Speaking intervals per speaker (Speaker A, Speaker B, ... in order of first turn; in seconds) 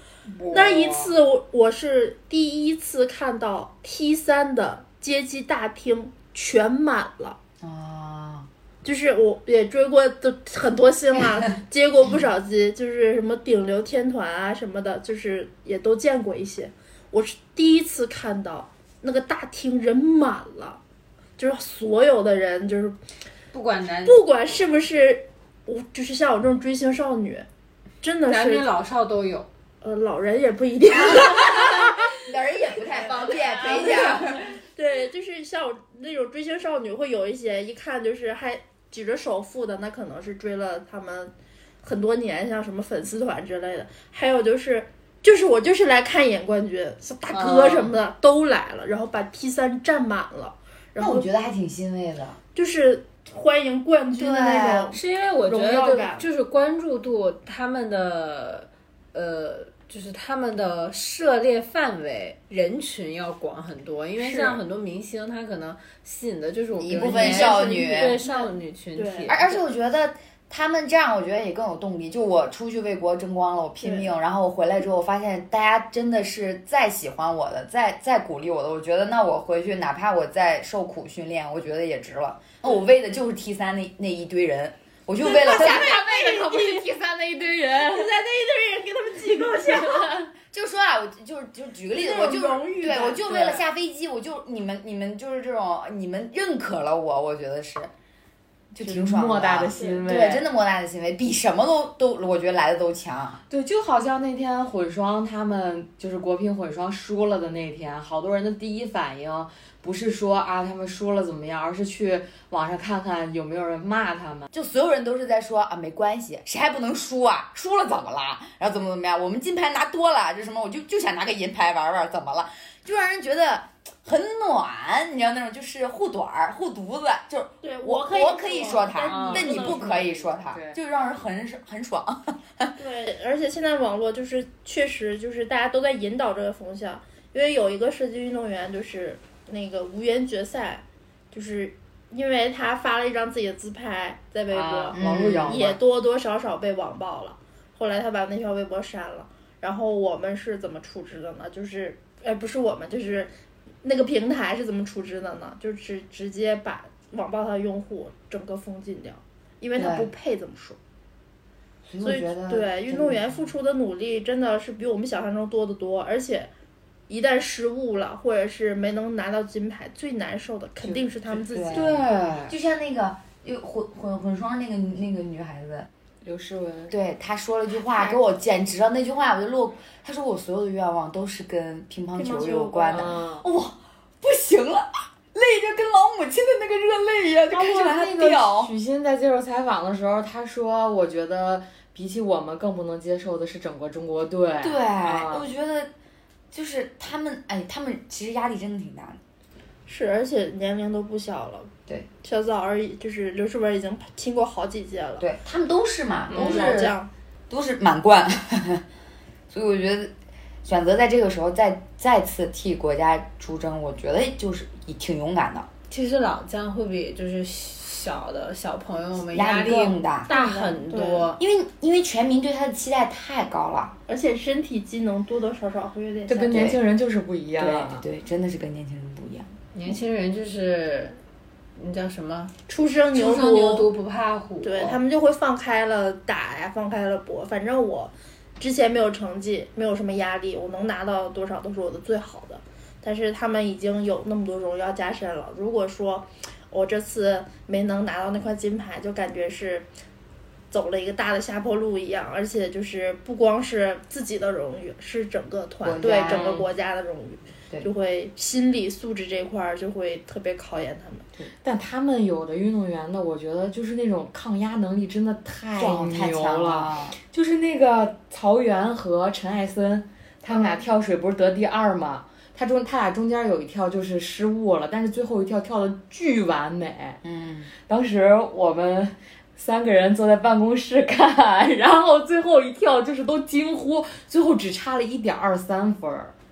Speaker A: 0.3-1.1, 7.6-8.5, 31.1-34.5, 51.0-52.4, 54.1-55.0, 66.8-68.2, 69.3-86.0, 90.5-97.9, 98.7-103.4, 114.5-132.7, 144.9-145.6, 159.8-160.1, 161.8-163.5, 171.5-175.9, 176.9-188.7, 194.6-195.9, 196.5-199.2, 205.2-207.0, 207.5-208.8, 209.5-215.7, 219.3-220.3, 221.4-223.9, 226.5-226.8, 227.6-229.5, 255.8-256.6, 265.8-267.1, 277.2-277.7
Speaker B: 0.5-7.4, 8.8-20.8, 21.4-23.0, 24.0-27.5, 28.0-28.7, 29.8-32.2, 32.9-51.3, 52.5-56.2, 64.2-64.6, 67.0-69.3, 73.8-74.1, 85.2-86.9, 87.7-90.3, 91.9-93.1, 99.7-100.0, 127.6-130.2, 132.8-153.3, 153.8-160.8, 162.0-166.5, 167.1-171.9, 182.1-183.1, 199.8-201.7, 202.2-205.2, 206.3-207.1, 220.3-221.3, 224.1-226.6, 232.7-233.9, 234.6-249.9, 250.7-261.3
Speaker C: 23.5-24.2, 28.3-29.5, 54.9-69.6, 215.9-221.4, 229.7-231.2, 231.8-232.5, 233.1-235.0
Speaker D: 47.3-47.9, 85.4-88.1, 93.1-93.4, 98.8-100.4, 103.5-114.5, 129.1-130.8, 144.5-145.8, 170.8-172.5, 176.2-176.9, 182.9-183.4, 187.5-195.5, 226.3-228.0, 256.2-256.6, 261.4-277.2, 277.9-286.3